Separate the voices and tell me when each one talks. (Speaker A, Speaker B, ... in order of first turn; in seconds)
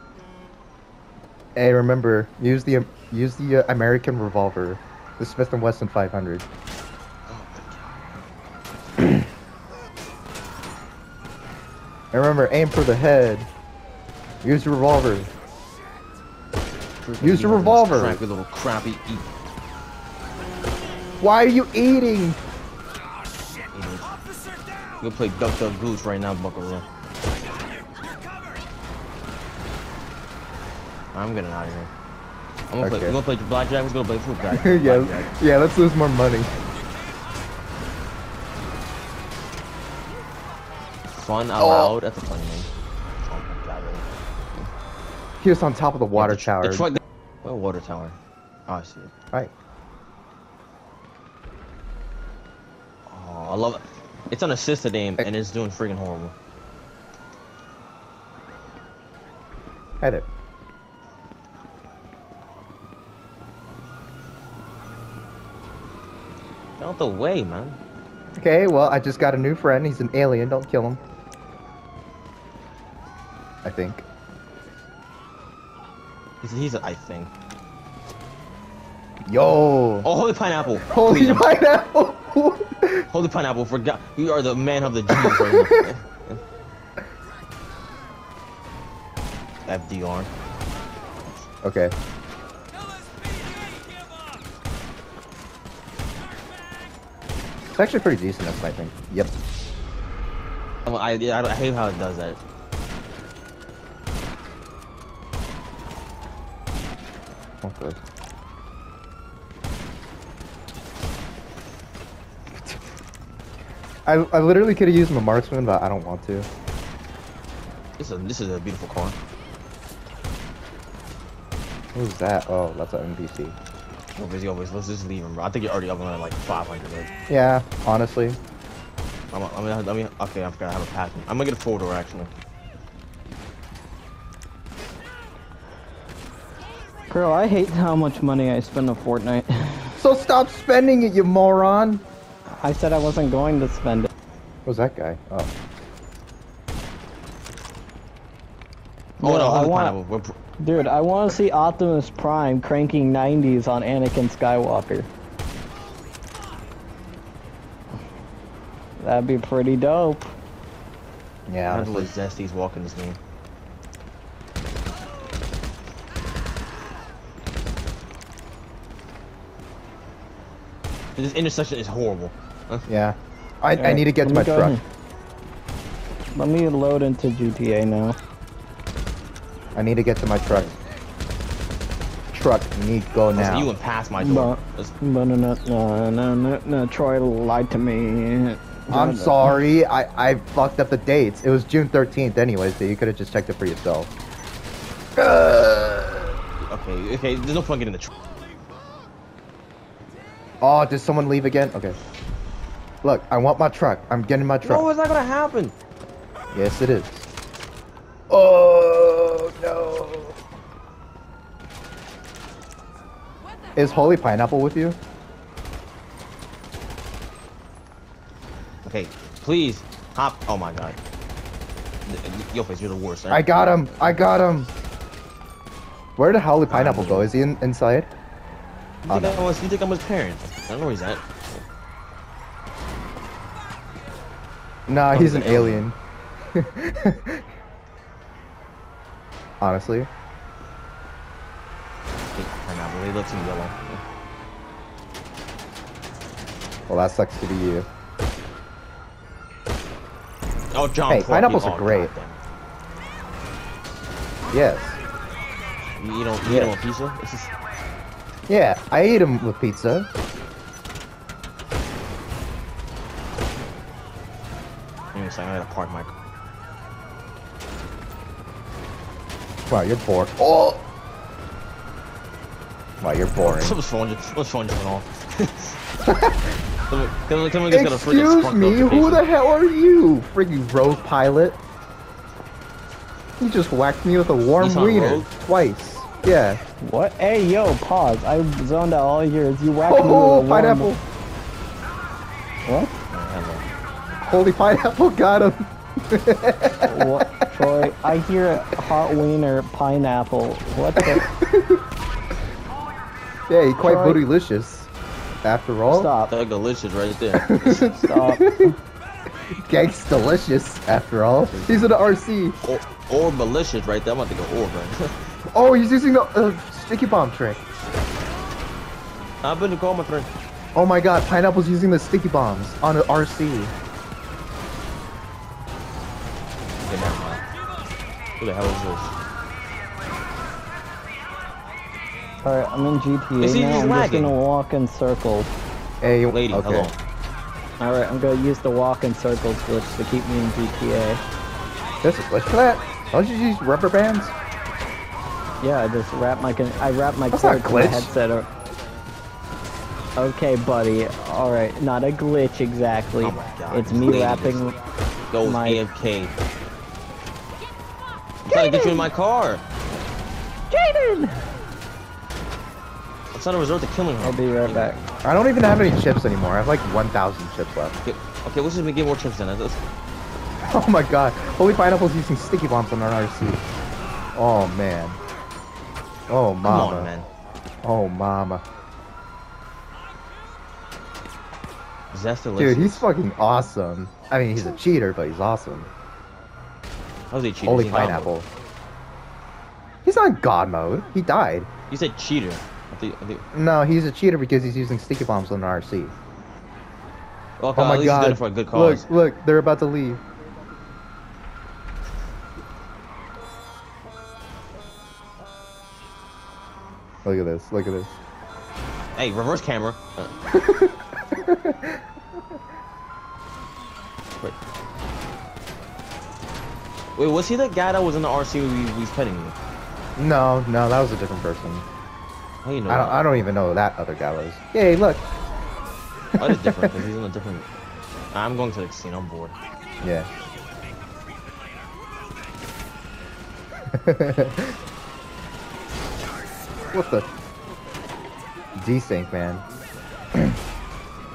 Speaker A: 1.6-6.4, 12.1-13.5, 14.4-15.3, 17.2-18.2, 21.2-22.4, 32.8-33.1, 34.5-36.5, 41.6-41.9, 45.4-46.9, 60.0-60.3, 68.4-71.0, 73.6-74.0, 79.2-80.1, 80.9-83.1, 85.1-85.9, 91.6-91.9, 97.7-99.3, 107.6-108.0, 112.5-112.8, 114.0-116.5, 121.9-123.5, 127.3-128.4, 140.0-142.0, 144.7-145.5, 161.5-162.1, 172.9-174.8, 179.7-180.7, 182.3-183.7, 188.9-194.1, 195.2-196.3, 200.6-202.0, 203.0-204.9, 206.5-207.2, 208.3-210.3, 213.8-215.0, 223.3-224.7, 226.2-228.1, 229.1-229.5, 234.9-236.0, 236.5-237.4, 239.6-240.1, 246.9-247.9, 251.1-252.1, 254.5-255.0, 256.4-256.8, 258.5-260.1, 269.7-270.8, 273.0-273.8, 276.0-276.6, 277.7-281.6, 283.4-286.6, 289.9-291.0, 294.2-297.5, 300.9-301.8, 303.5-304.9, 305.4-306.1, 307.4-308.7, 309.5-312.6, 315.5-317.6, 320.7-323.7, 336.0-336.9, 342.0-344.3, 347.3-348.1, 365.2-368.0, 370.6-373.6, 374.4-375.2, 376.3-377.1, 377.8-378.6, 382.6-385.9, 387.6-388.5, 390.0-391.7, 393.5-396.1, 397.7-400.2, 407.2-408.1, 410.5-412.0, 420.1-421.9, 422.9-425.2, 426.4-426.9, 430.0-430.3, 433.9-434.7, 436.9-437.2, 438.8-439.6
Speaker B: 7.3-8.3, 17.0-19.3, 23.7-24.1, 25.0-26.9, 31.1-31.9, 32.7-35.3, 41.1-42.7, 43.3-44.7, 46.1-49.1, 53.1-56.4, 66.8-67.8, 76.4-77.3, 80.0-81.5, 83.1-86.4, 89.7-90.3, 100.8-102.4, 118.0-119.2, 124.2-127.1, 129.3-132.3, 149.2-150.4, 161.7-163.2, 171.2-172.9, 180.5-180.7, 183.3-184.9, 196.6-198.1, 204.6-205.7, 218.8-221.0, 222.1-224.0, 226.7-227.3, 229.0-231.6, 235.1-235.9, 242.3-244.0, 250.7-252.4, 256.0-257.5, 265.1-266.1, 273.4-275.8, 276.9-279.2, 284.6-285.3, 293.1-293.6, 306.3-307.9, 311.5-311.9, 312.6-315.3, 319.4-320.3, 326.9-327.4, 328.4-329.1, 333.4-334.4, 336.3-337.0, 353.2-354.7, 355.3-356.3, 358.4-359.6, 363.3-365.0, 368.0-369.8, 376.6-377.3, 382.1-383.0, 387.3-388.3, 391.9-393.4, 397.6-399.1, 409.1-410.3, 417.1-419.6, 422.6-423.2, 426.4-427.7, 428.3-429.6
Speaker C: 137.1-140.0, 142.4-144.1, 149.2-150.0, 150.6-155.1, 159.0-160.3, 173.8-174.8, 176.3-178.2, 184.2-189.6, 286.8-290.9, 292.7-292.9, 296.9-301.2, 303.8-304.2, 305.9-306.3, 307.7-308.8, 332.4-335.5, 337.8-341.2, 345.6-348.5, 350.2-354.8, 355.4-355.8, 358.5-359.1, 360.7-361.4, 364.2-365.0